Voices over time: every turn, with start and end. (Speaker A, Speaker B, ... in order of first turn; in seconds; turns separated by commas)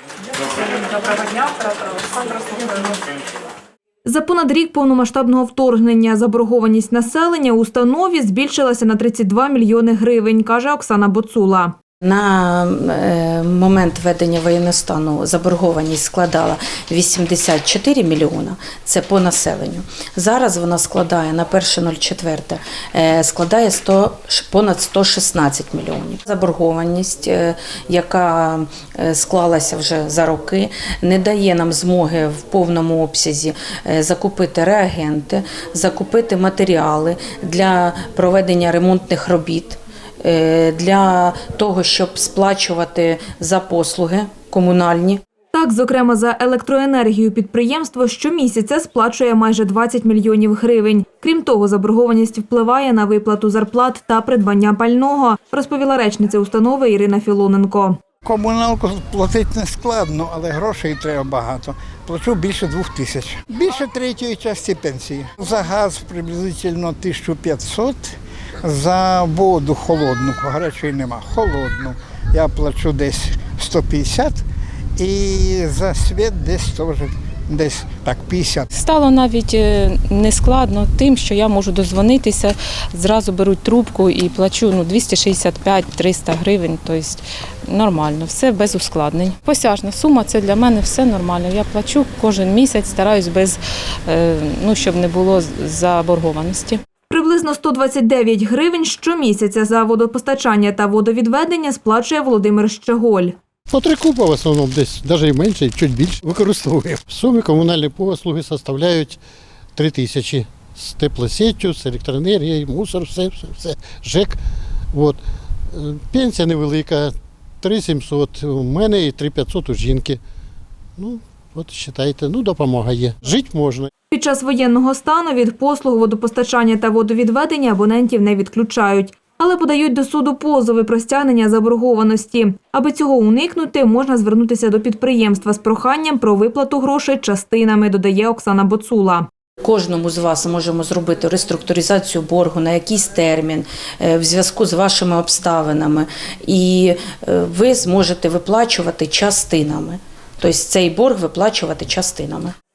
Speaker A: 0.9-2.9, Speaker A: 4.0-11.7, Speaker B: 12.0-45.2, Speaker A: 45.5-58.0, Speaker C: 58.2-74.4, Speaker C: 75.0-78.7, Speaker D: 78.7-96.8, Speaker A: 97.1-103.3, Speaker E: 103.7-109.2, Speaker E: 109.7-114.4, Speaker E: 114.9-120.2, Speaker E: 121.0-123.9, Speaker A: 124.1-139.3, Speaker B: 139.6-152.5